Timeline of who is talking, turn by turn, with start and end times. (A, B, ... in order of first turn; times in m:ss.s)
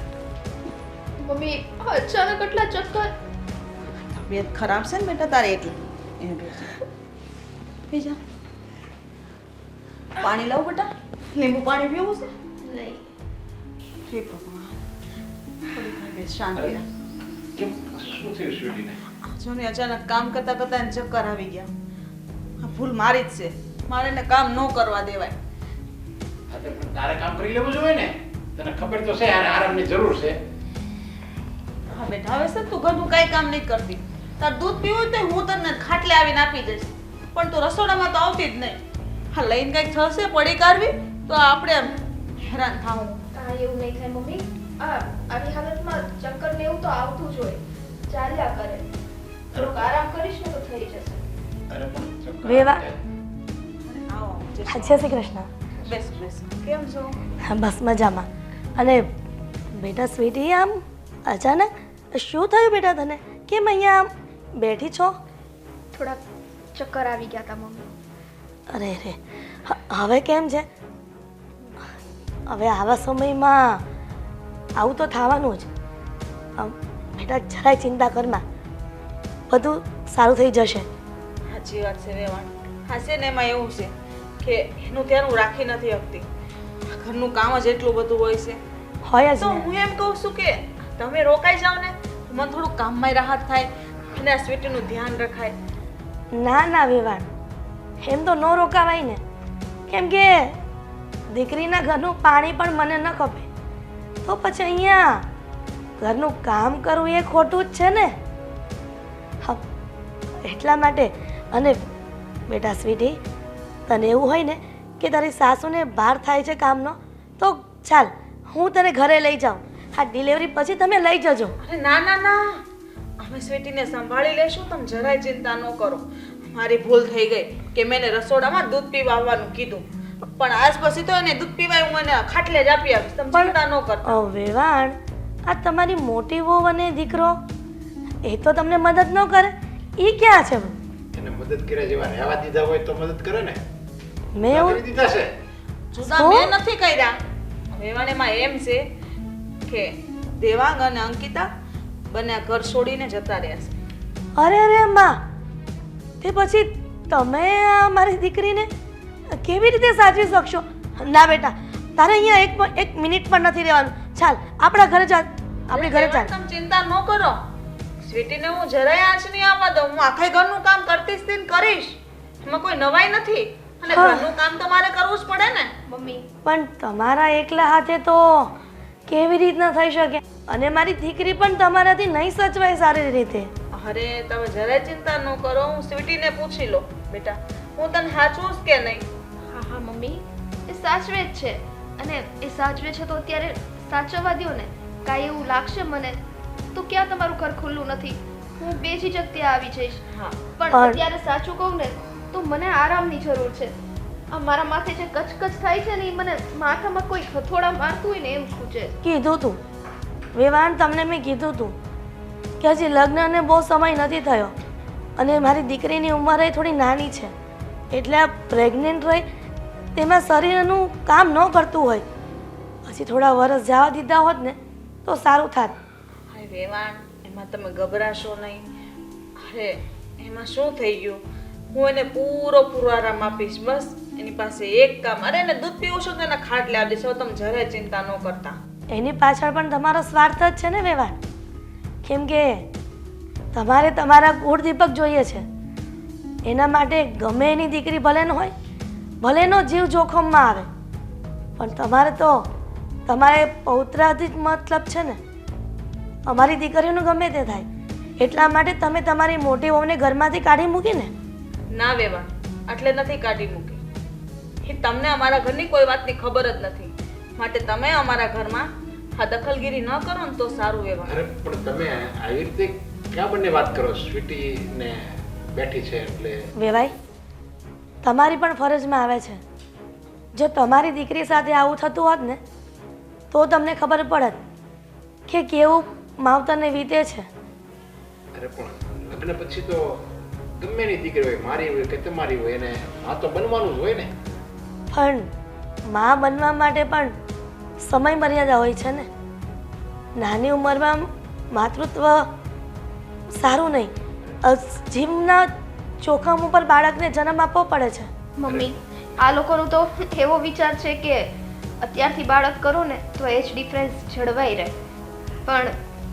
0:01.2-0:03.1 A
0:04.1-0:06.7 B
0:07.9-0:08.2 B
0:10.2-0:12.3 B
0:12.6-0:13.0 A
0:14.1-0:14.8 B
0:15.7-0:16.8 B
0:17.6-0:19.0 C
0:19.3-0:21.7 B
0:22.6-0:25.4 B
0:26.5-0:30.4 C
0:31.9-0:38.8 B
0:39.3-0:43.2 B
0:43.4-0:48.8 A
0:49.5-0:49.9 C
0:49.5-0:51.2 A
0:51.7-0:53.0 C
0:52.4-0:52.8 D
0:53.8-0:55.1 B
0:54.7-0:55.5 D
0:55.9-0:57.2 B
0:57.4-0:59.1 D
0:59.7-1:05.2 D
1:05.9-1:06.2 A
1:06.8-1:07.9 A
1:08.7-1:10.7 D
1:12.5-1:13.8 D
1:14.8-1:15.7 D
1:16.6-1:18.4 D
1:19.5-1:20.9 D
1:21.5-1:26.2 B
1:26.9-1:28.6 B
1:29.0-1:29.6 D
1:29.4-1:35.6 B
1:36.3-1:37.3 D
1:38.0-1:39.2 D
1:39.9-1:40.6 D
1:41.3-1:43.5 D
1:44.2-1:45.3 D
1:46.0-1:48.2 D
1:50.4-1:51.8 D
1:52.5-1:53.2 D
1:53.9-2:01.6 D
2:01.6-2:02.6 B
2:03.2-2:14.2 B
2:13.3-2:17.4 D
2:18.2-2:20.8 D
2:21.1-2:23.6 C
2:24.4-2:24.8 D
2:24.4-2:25.3 C
2:25.9-2:27.2 B
2:26.0-2:26.5 D
2:27.7-2:28.8 B
2:29.7-2:31.5 B
2:32.1-2:33.8 B
2:34.4-2:35.2 D
2:36.2-2:38.7 D
2:39.3-2:46.3 D
2:45.7-2:47.4 B
2:48.0-2:55.7 B
2:53.9-2:54.3 D
2:55.9-2:56.3 A
2:56.4-2:58.5 D
2:59.1-3:03.5 D
3:03.7-3:09.0 B
3:09.5-3:16.2 A
3:16.7-3:20.0 A
3:20.1-3:20.4 B
3:20.6-3:23.7 A
3:20.7-3:21.0 D
3:24.3-3:29.0 A
3:29.0-3:29.6 D
3:30.3-3:31.8 D
3:32.6-3:34.5 D
3:35.2-3:37.3 D
3:37.9-3:39.2 D
3:40.0-3:42.0 D
3:42.8-3:45.8 D
3:46.3-3:48.6 B
3:49.4-3:51.2 B
3:51.7-3:58.6 B
3:58.9-4:01.2 D
4:02.0-4:02.7 D
4:03.5-4:05.4 D
4:06.4-4:08.5 D
4:09.2-4:10.7 D
4:11.6-4:12.5 D
4:13.1-4:15.2 D
4:16.3-4:17.7 D
4:18.2-4:21.1 D
4:21.7-4:23.8 B
4:24.6-4:31.1 B
4:31.1-4:36.5 C
4:36.6-4:36.9 D
4:38.0-4:39.4 D
4:40.4-4:42.4 D
4:43.3-4:44.4 D
4:45.3-4:47.3 D
4:48.3-4:50.0 C
4:50.6-4:54.1 C
4:54.9-4:55.3 D
4:55.9-4:57.2 D
4:57.8-4:59.1 D
5:00.2-5:02.3 D
5:03.3-5:03.9 D
5:04.4-5:08.1 D
5:08.4-5:11.3 A
5:11.8-5:14.8 A
5:15.5-5:15.8 A